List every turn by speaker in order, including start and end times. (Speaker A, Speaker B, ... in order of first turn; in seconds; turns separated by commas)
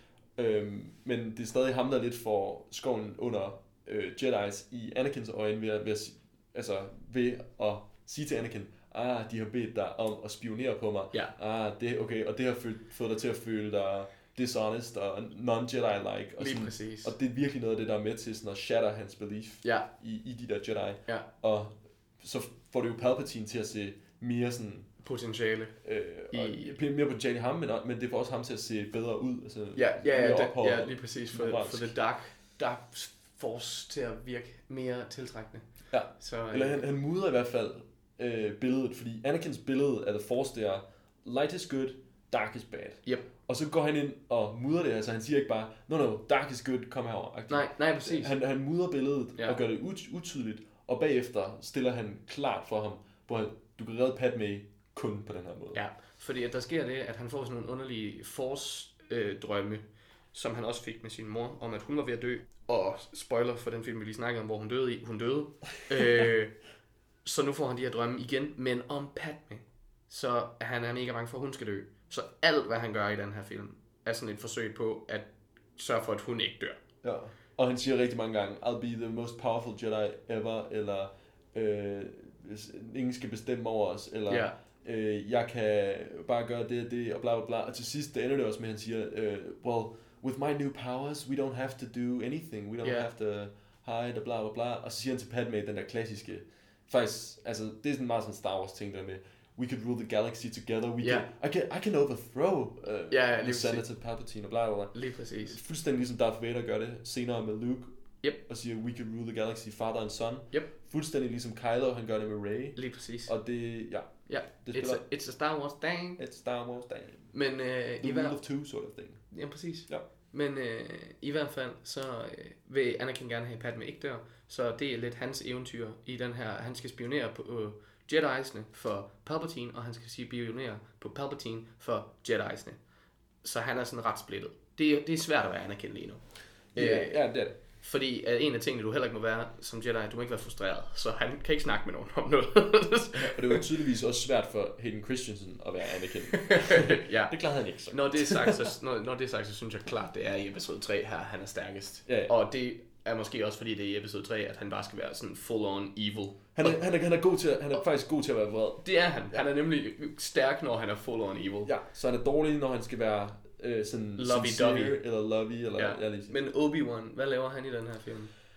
Speaker A: 0.4-24.9, Speaker B: 16.4-17.1, Speaker B: 25.0-25.8, Speaker A: 25.8-31.9, Speaker B: 26.3-26.7, Speaker B: 29.8-36.8, Speaker A: 35.9-55.8, Speaker B: 47.5-48.3, Speaker B: 55.7-66.5, Speaker B: 67.2-76.8, Speaker A: 77.0-107.9, Speaker B: 84.3-84.6, Speaker B: 92.8-93.1, Speaker B: 101.0-101.3, Speaker B: 103.1-103.9, Speaker B: 104.9-105.6, Speaker A: 108.5-115.0, Speaker B: 112.8-113.3, Speaker B: 114.3-116.2, Speaker A: 116.2-117.3, Speaker B: 117.3-118.4, Speaker A: 118.0-119.3, Speaker B: 119.3-132.8, Speaker B: 133.4-136.2, Speaker A: 136.7-137.6, Speaker B: 136.8-137.2, Speaker B: 137.8-143.7, Speaker A: 143.1-148.7, Speaker B: 146.3-147.3, Speaker B: 147.9-156.8, Speaker A: 152.1-152.3, Speaker A: 156.6-158.8, Speaker B: 158.8-161.7, Speaker A: 161.7-166.4, Speaker B: 164.2-165.0, Speaker B: 165.8-168.3